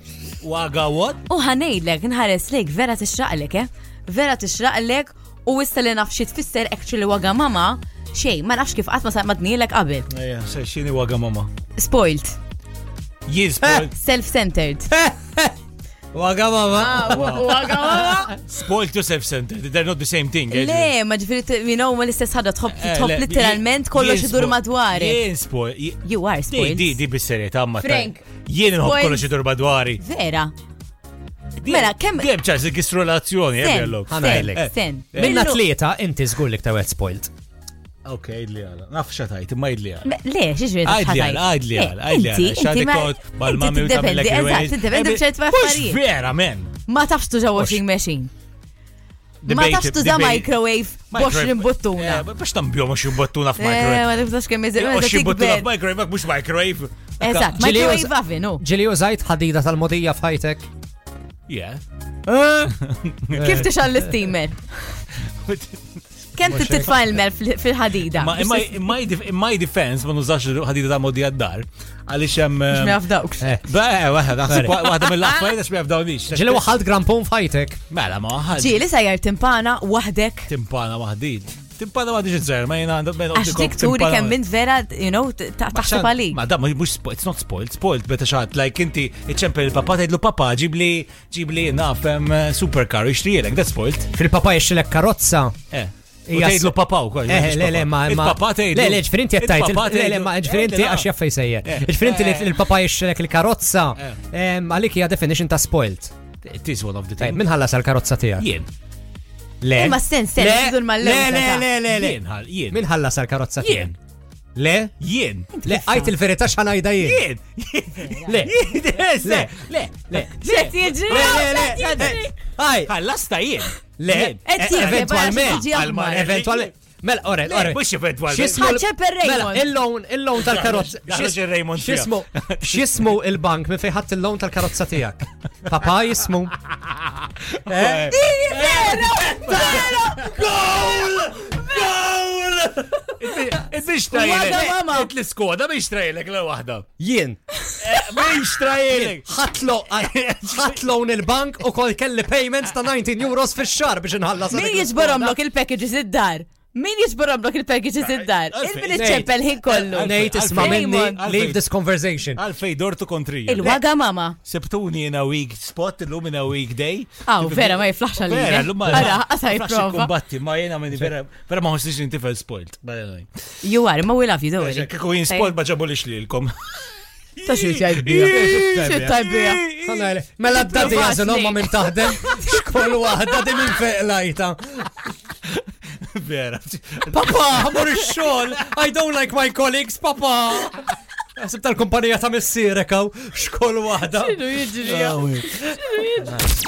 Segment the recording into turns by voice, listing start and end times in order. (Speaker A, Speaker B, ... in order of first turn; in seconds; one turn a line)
Speaker A: 0.4-1.2
Speaker B: 1.3-10.1
Speaker A: 10.1-11.5
Speaker B: 11.8-12.4
Speaker A: 13.3-13.9
Speaker B: 13.8-14.9
Speaker C: 14.9-15.5
Speaker C: 16.1-18.3
Speaker B: 16.8-18.3
Speaker A: 17.1-17.5
Speaker A: 18.3-20.9
Speaker B: 20.5-25.2
Speaker A: 22.7-30.0
Speaker B: 26.0-27.0
Speaker B: 27.8-28.2
Speaker B: 28.8-29.3
Speaker B: 30.0-30.5
Speaker B: 31.6-32.3
Speaker A: 31.6-35.4
Speaker B: 33.6-35.6
Speaker C: 34.1-37.3
Speaker A: 38.0-40.1
Speaker B: 40.0-46.0
Speaker A: 40.8-46.7
Speaker B: 46.9-48.3
Speaker A: 47.5-47.8
Speaker A: 49.4-50.5
Speaker B: 49.5-52.2
Speaker A: 51.1-54.1
Speaker B: 53.6-55.7
Speaker A: 54.8-57.8
Speaker B: 57.2-58.6
Speaker C: 57.5-60.6
Speaker A: 61.5-61.8
Speaker B: 62.3-62.7
Speaker A: 62.7-63.7
Speaker B: 63.3-64.6
Speaker C: 63.4-63.7
Speaker A: 65.4-65.9
Speaker B: 66.3-68.9
Speaker A: 66.4-66.8
Speaker C: 66.4-66.9
Speaker A: 68.1-73.0
Speaker B: 72.7-73.5
Speaker A: 73.6-76.6
Speaker C: 74.4-74.8
Speaker B: 74.8-75.5
Speaker C: 76.3-77.8
Speaker A: 77.9-78.8
Speaker B: 78.5-80.5
Speaker A: 80.5-84.4
Speaker B: 83.3-86.4
Speaker C: 85.7-86.1
Speaker A: 86.3-94.1
Speaker C: 94.1-95.5
Speaker A: 95.7-101.1
Speaker C: 96.3-106.1
Speaker A: 101.6-102.7
Speaker A: 106.4-107.4
Speaker C: 107.2-108.5
Speaker A: 108.4-108.7
Speaker C: 109.6-112.2
Speaker B: 109.7-111.7
Speaker A: 111.7-112.8
Speaker C: 112.7-113.9
Speaker A: 113.6-113.9
Speaker C: 114.5-114.9
Speaker A: 115.0-115.5
Speaker B: 115.6-116.1
Speaker C: 115.6-117.2
Speaker A: 117.0-122.2
Speaker C: 118.1-118.6
Speaker C: 119.2-120.3
Speaker B: 120.4-122.3
Speaker C: 121.0-122.9
Speaker A: 122.9-126.7
Speaker C: 124.0-136.6
Speaker B: 124.4-126.3
Speaker A: 127.4-128.7
Speaker B: 128.5-129.7
Speaker A: 130.3-133.1
Speaker A: 136.8-146.8
Speaker C: 137.7-138.1
Speaker B: 138.1-140.5
Speaker B: 144.1-145.1
Speaker C: 147.0-147.4
Speaker A: 147.8-149.3
Speaker C: 148.9-155.3
Speaker A: 149.9-150.8
Speaker B: 154.5-161.2
Speaker A: 158.0-161.7
Speaker C: 158.9-159.3
Speaker C: 159.9-162.4
Speaker A: 162.3-163.8
Speaker B: 163.5-164.4
Speaker A: 164.4-173.3
Speaker B: 167.2-170.1
Speaker C: 168.8-169.1
Speaker B: 173.6-175.5
Speaker A: 174.6-176.7
Speaker A: 177.4-181.1
Speaker B: 177.4-179.6
Speaker C: 178.3-179.1
Speaker C: 179.8-184.9
Speaker B: 180.5-183.2
Speaker A: 185.4-188.6
Speaker C: 187.1-194.4
Speaker B: 194.1-196.3
Speaker A: 194.8-195.6